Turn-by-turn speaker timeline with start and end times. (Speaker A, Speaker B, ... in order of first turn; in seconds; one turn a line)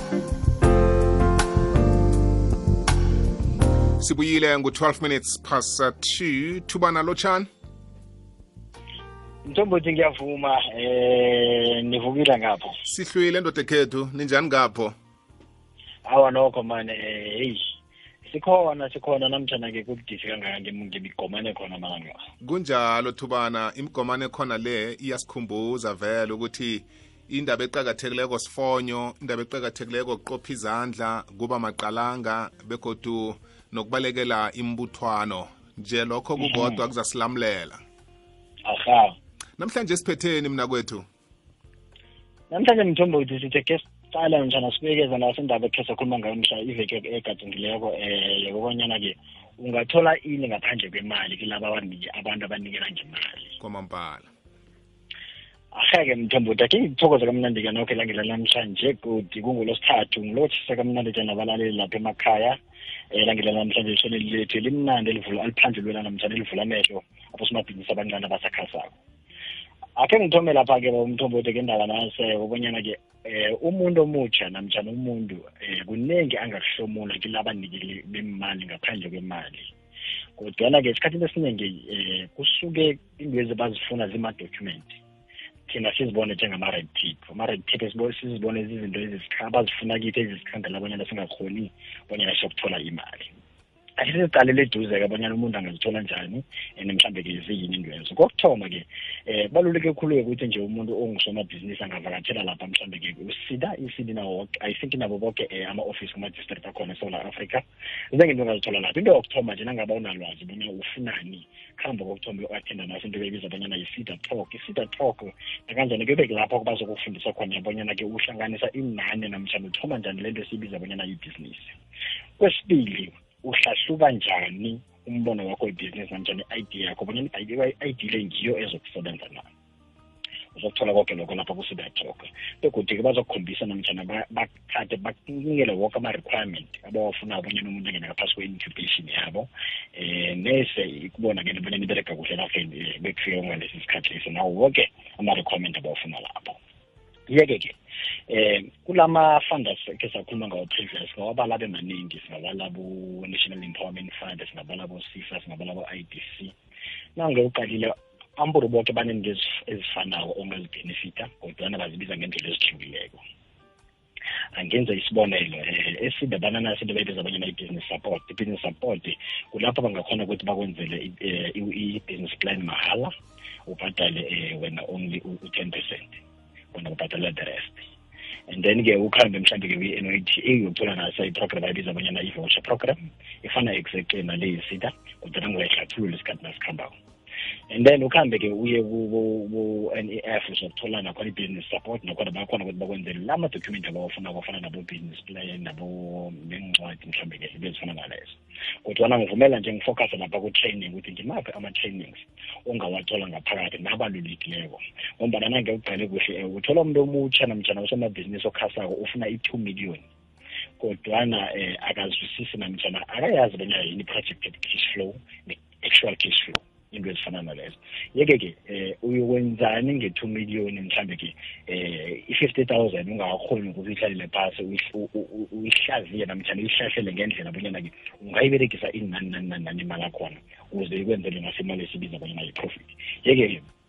Speaker A: 4.0-7.5
Speaker B: 9.5-12.8
Speaker A: 12.8-14.9
Speaker B: 16.1-17.6
Speaker B: 18.2-22.2
Speaker A: 22.4-37.8
Speaker B: 36.4-36.8
Speaker B: 38.7-39.1
Speaker A: 39.6-41.0
Speaker B: 42.5-53.6
Speaker A: 53.6-54.3
Speaker B: 55.7-62.6
Speaker B: 63.1-69.0
Speaker B: 70.0-79.7
Speaker B: 80.4-85.0
Speaker B: 85.7-93.3
Speaker B: 94.0-121.7
Speaker B: 122.4-129.5
Speaker B: 130.5-146.6
Speaker B: 147.3-147.8
Speaker B: 148.3-156.5
Speaker B: 157.2-163.2
Speaker B: 164.6-173.1
Speaker B: 173.7-176.2
Speaker B: 176.7-177.9
Speaker B: 178.5-186.9
Speaker B: 187.7-210.1
Speaker B: 210.8-233.6